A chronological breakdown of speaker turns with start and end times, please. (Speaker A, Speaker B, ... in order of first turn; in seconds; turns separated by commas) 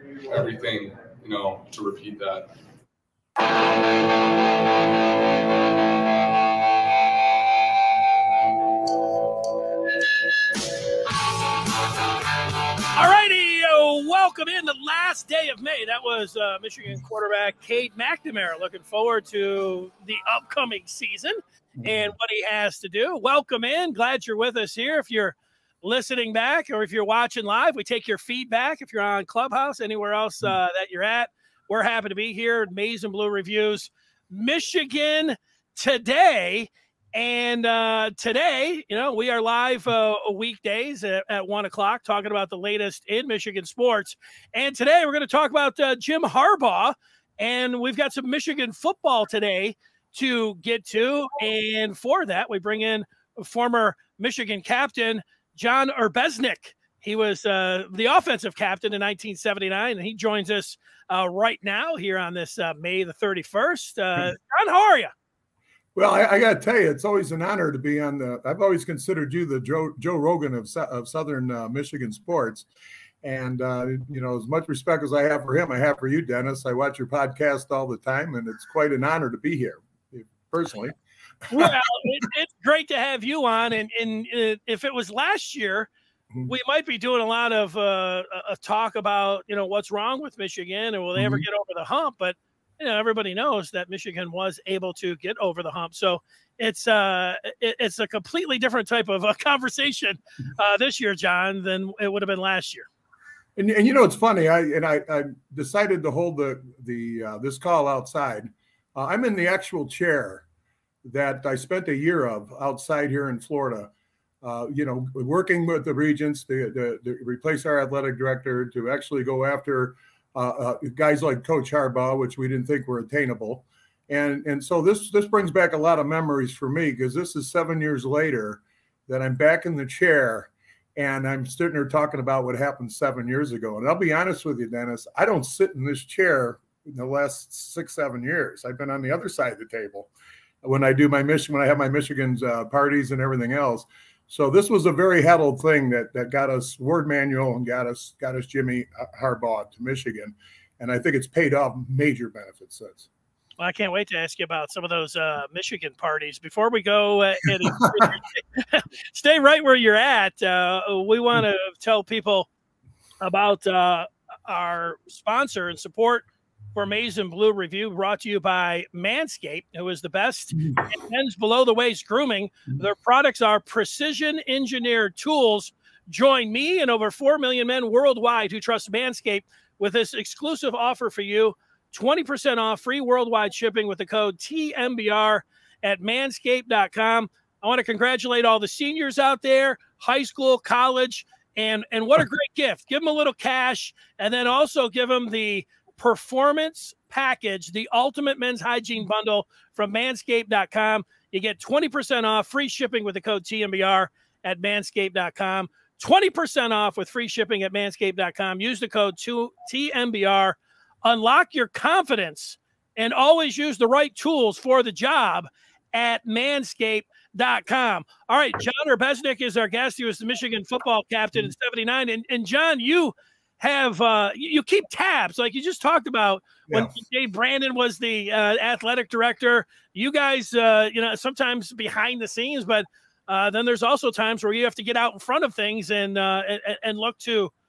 Speaker A: 0.3-2.5, Speaker B: 12.9-65.1, Speaker C: 21.8-22.1, Speaker C: 66.0-72.7, Speaker C: 73.2-81.0, Speaker C: 81.5-81.8, Speaker B: 81.5-85.9, Speaker B: 86.5-102.9, Speaker C: 91.2-91.4, Speaker C: 103.6-110.4, Speaker C: 111.0-113.9, Speaker C: 114.4-140.1, Speaker C: 140.6-153.1, Speaker B: 153.6-162.5, Speaker C: 157.7-158.1, Speaker B: 163.2-237.5, Speaker C: 170.6-170.9, Speaker C: 226.7-226.9